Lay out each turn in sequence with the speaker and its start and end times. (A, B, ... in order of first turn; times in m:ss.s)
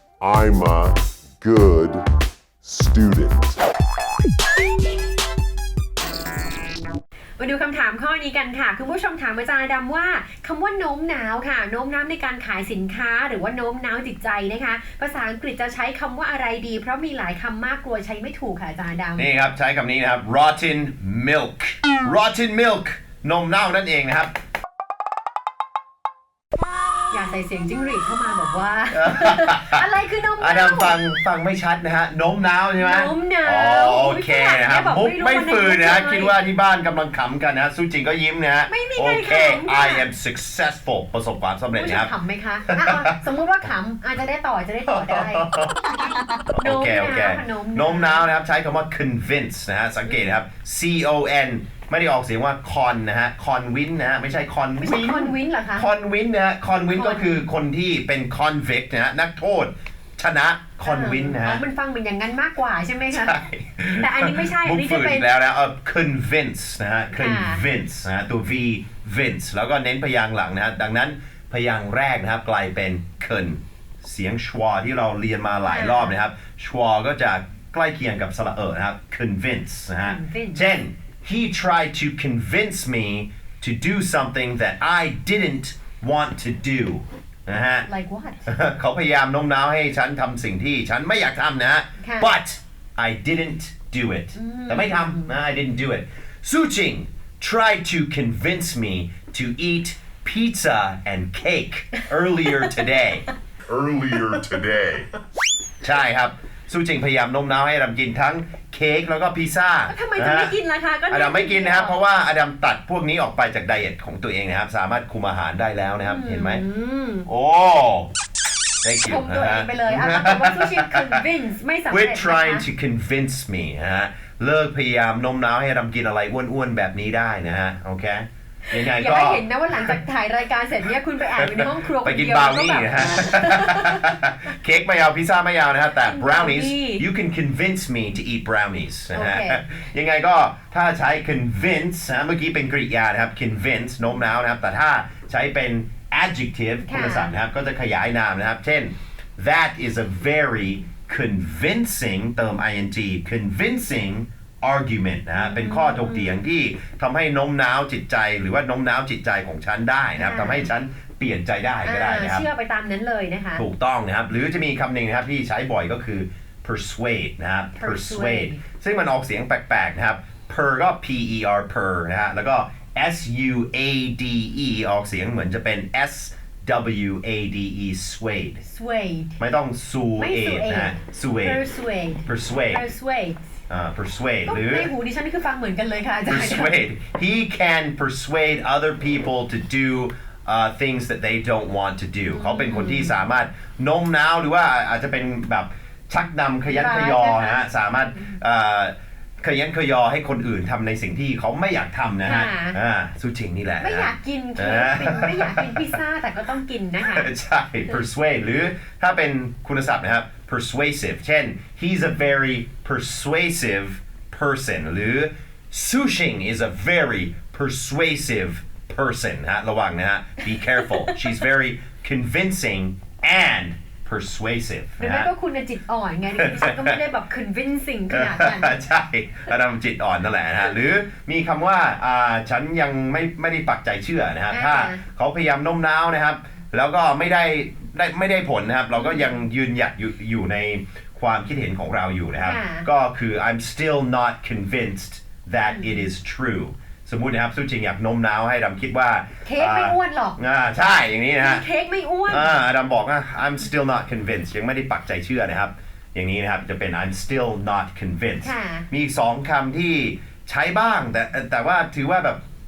0:00.2-0:02.0 A
0:02.6-0:03.5 A
0:07.4-0:19.3 B
0:19.2-0:24.3 C
0:27.1-0:31.0 B
0:28.9-0:29.9 C
0:30.4-0:42.1 C
0:32.8-0:36.4 B
0:38.7-0:40.1 B
0:41.8-0:45.5 B
0:42.7-0:43.2 C
0:44.8-0:45.9 C
0:46.1-0:48.3 B
0:46.5-1:01.6 C
0:54.8-0:55.9 B
0:56.9-0:57.4 B
1:00.8-1:03.4 B
1:03.1-1:27.9 C
1:04.0-1:05.3 B
1:07.1-1:07.6 B
1:15.6-1:16.2 B
1:20.0-1:20.7 B
1:27.8-1:28.4 B
1:28.4-1:43.2 C
1:32.0-1:32.3 B
1:34.4-1:35.3 B
1:42.4-1:42.8 B
1:43.7-1:45.1 A
1:45.8-1:50.6 C
1:49.9-1:52.0 B
1:51.1-1:56.6 C
1:56.0-1:57.3 B
1:57.3-1:58.1 C
1:58.8-2:01.2 C
1:59.0-2:02.6 B
2:01.9-2:10.0 C
2:08.7-2:14.2 B
2:11.3-2:42.5 C
2:16.0-2:17.0 B
2:19.1-2:19.6 B
2:26.8-2:27.3 B
2:35.3-2:36.4 B
2:40.2-2:40.7 B
2:41.8-2:43.6 B
2:43.6-2:58.6 C
2:47.7-2:48.6 B
2:58.6-2:59.4 B
2:59.4-3:01.6 C
3:00.2-3:03.5 B
3:02.2-3:02.9 C
3:03.7-3:04.9 C
3:04.4-3:06.7 B
3:06.3-3:26.0 C
3:12.3-3:13.2 B
3:16.6-3:17.6 B
3:22.2-3:22.8 B
3:23.8-3:27.3 B
3:27.0-3:45.3 C
3:40.6-3:41.3 B
3:45.0-3:48.9 B
3:46.4-3:47.0 C
3:48.1-4:11.7 C
3:54.5-3:55.0 B
3:59.0-3:59.4 B
4:02.4-4:02.8 B
4:05.6-4:06.1 B
4:09.4-4:10.4 B
4:11.4-4:12.6 B
4:12.3-4:22.4 C
4:18.4-4:18.8 B